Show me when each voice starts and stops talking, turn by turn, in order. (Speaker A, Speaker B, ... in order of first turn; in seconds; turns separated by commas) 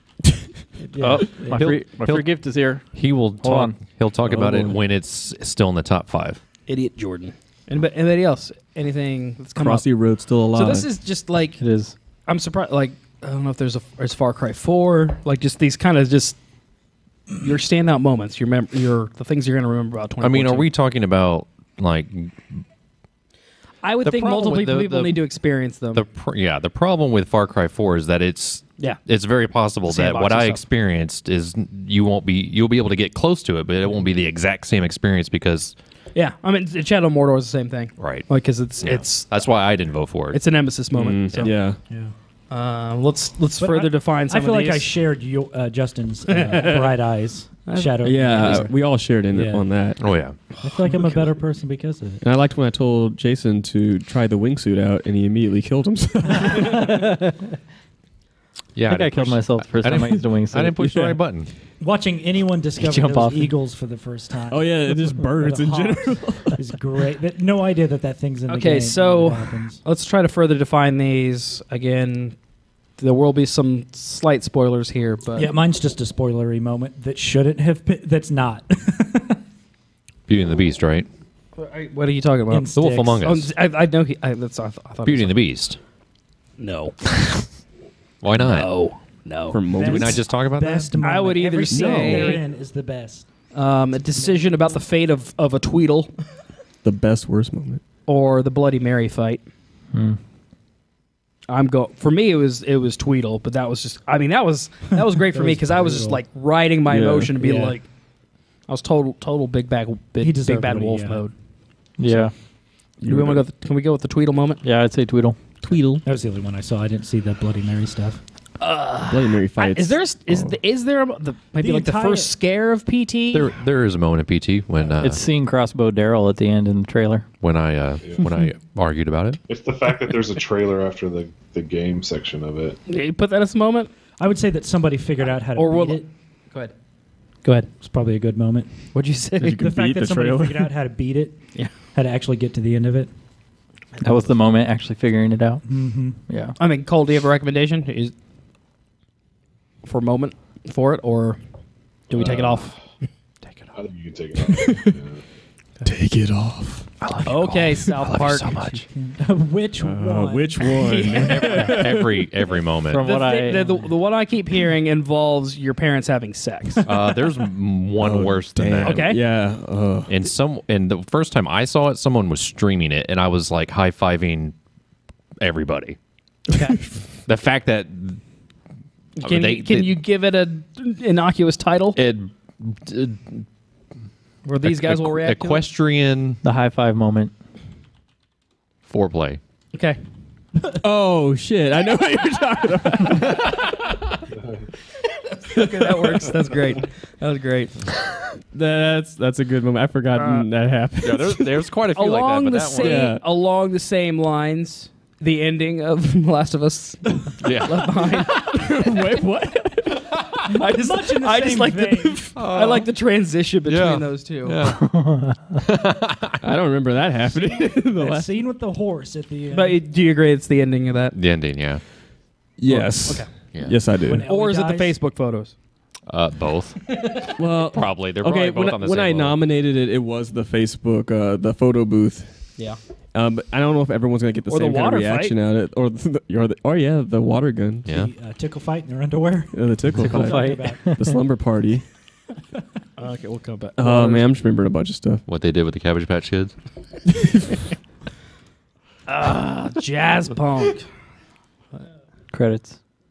Speaker A: 0.8-1.8, Speaker B: 1.0-6.4, Speaker C: 1.3-3.8, Speaker D: 4.3-4.8, Speaker E: 6.7-16.5, Speaker D: 9.5-10.9, Speaker C: 11.6-12.0, Speaker E: 17.3-20.7, Speaker B: 20.2-22.6, Speaker E: 23.8-26.1, Speaker B: 24.0-35.8, Speaker E: 29.9-30.6, Speaker E: 36.1-39.8, Speaker B: 38.0-40.8, Speaker E: 40.3-42.0, Speaker D: 40.9-41.9, Speaker A: 41.9-42.1, Speaker E: 42.5-44.9, Speaker A: 43.6-52.2, Speaker E: 46.4-47.0, Speaker E: 47.7-48.8, Speaker D: 48.0-50.2, Speaker B: 50.0-50.4, Speaker E: 50.5-51.3, Speaker D: 52.2-56.9, Speaker B: 58.8-61.5, Speaker C: 58.9-61.2, Speaker A: 61.8-69.8, Speaker C: 62.8-63.6, Speaker D: 64.5-66.8, Speaker E: 68.5-75.5, Speaker A: 75.3-79.4, Speaker B: 80.3-81.1, Speaker E: 81.6-85.4, Speaker A: 82.5-83.2, Speaker B: 82.7-83.5, Speaker B: 85.0-85.8, Speaker E: 86.6-87.1, Speaker B: 88.2-89.3, Speaker E: 88.4-92.5, Speaker D: 89.5-90.3, Speaker A: 89.7-94.6, Speaker B: 89.8-90.9, Speaker D: 91.7-92.4, Speaker E: 93.5-96.2, Speaker D: 96.8-97.8, Speaker E: 98.0-99.5, Speaker C: 99.9-100.2, Speaker E: 101.5-111.4, Speaker A: 105.3-106.2, Speaker D: 106.9-107.3, Speaker A: 107.4-107.8, Speaker A: 110.2-111.3, Speaker C: 112.0-112.3, Speaker E: 112.1-112.4, Speaker E: 113.0-114.6, Speaker D: 113.0-113.5, Speaker C: 114.6-115.8, Speaker D: 115.6-116.0, Speaker A: 116.0-118.2, Speaker E: 118.6-123.6, Speaker D: 119.1-120.6, Speaker A: 121.6-122.3, Speaker B: 123.3-125.2, Speaker C: 125.0-127.3, Speaker B: 127.4-129.4, Speaker F: 129.5-132.8, Speaker E: 132.9-133.9, Speaker A: 134.2-136.1, Speaker E: 135.2-136.8, Speaker E: 137.4-137.7, Speaker A: 137.8-143.1, Speaker E: 138.9-139.7, Speaker D: 139.4-140.7, Speaker C: 144.0-146.6, Speaker A: 145.7-146.2, Speaker E: 146.6-148.1, Speaker E: 149.8-153.1, Speaker F: 152.1-153.0, Speaker B: 153.4-153.7, Speaker F: 153.8-155.2, Speaker D: 154.6-154.9, Speaker D: 155.8-157.0, Speaker B: 157.0-158.8, Speaker E: 157.2-158.8, Speaker A: 158.9-160.8, Speaker D: 159.8-162.1, Speaker E: 160.6-161.8, Speaker B: 161.5-163.1, Speaker C: 162.9-163.7, Speaker E: 163.0-167.0, Speaker A: 163.5-163.8, Speaker B: 166.8-169.1, Speaker D: 168.0-170.2, Speaker E: 168.8-169.2, Speaker B: 170.1-174.6, Speaker B: 175.4-176.0, Speaker E: 176.5-176.9, Speaker D: 176.7-177.0, Speaker B: 177.2-178.3, Speaker E: 179.2-182.0, Speaker B: 179.2-179.9, Speaker B: 181.9-183.5, Speaker E: 184.4-185.7, Speaker B: 184.6-186.4, Speaker C: 186.4-187.3, Speaker B: 188.9-189.4, Speaker E: 189.7-190.0, Speaker D: 190.7-193.6, Speaker E: 193.0-193.5, Speaker E: 195.5-198.2, Speaker D: 195.6-196.2, Speaker D: 198.5-201.5, Speaker E: 200.2-200.5, Speaker B: 201.0-203.1, Speaker E: 201.9-208.9, Speaker D: 202.8-203.2, Speaker B: 207.4-207.8, Speaker D: 208.3-210.1, Speaker E: 210.5-214.6, Speaker A: 210.5-212.3, Speaker B: 212.4-216.4, Speaker C: 214.8-215.4, Speaker D: 216.4-218.3, Speaker A: 217.7-219.8, Speaker E: 219.5-221.2, Speaker B: 221.1-221.8, Speaker D: 222.6-224.3, Speaker A: 222.7-223.2, Speaker E: 223.0-223.6, Speaker B: 223.5-223.8, Speaker A: 224.0-225.0, Speaker E: 224.2-225.6, Speaker B: 226.1-229.4, Speaker D: 227.4-237.9, Speaker E: 232.6-232.8, Speaker E: 234.5-235.4, Speaker B: 237.9-238.1, Speaker A: 237.9-241.1, Speaker D: 239.5-241.9, Speaker C: 240.0-241.2, Speaker E: 243.0-244.3, Speaker D: 243.8-245.2, Speaker B: 245.3-246.7, Speaker E: 249.1-251.0, Speaker C: 252.3-252.8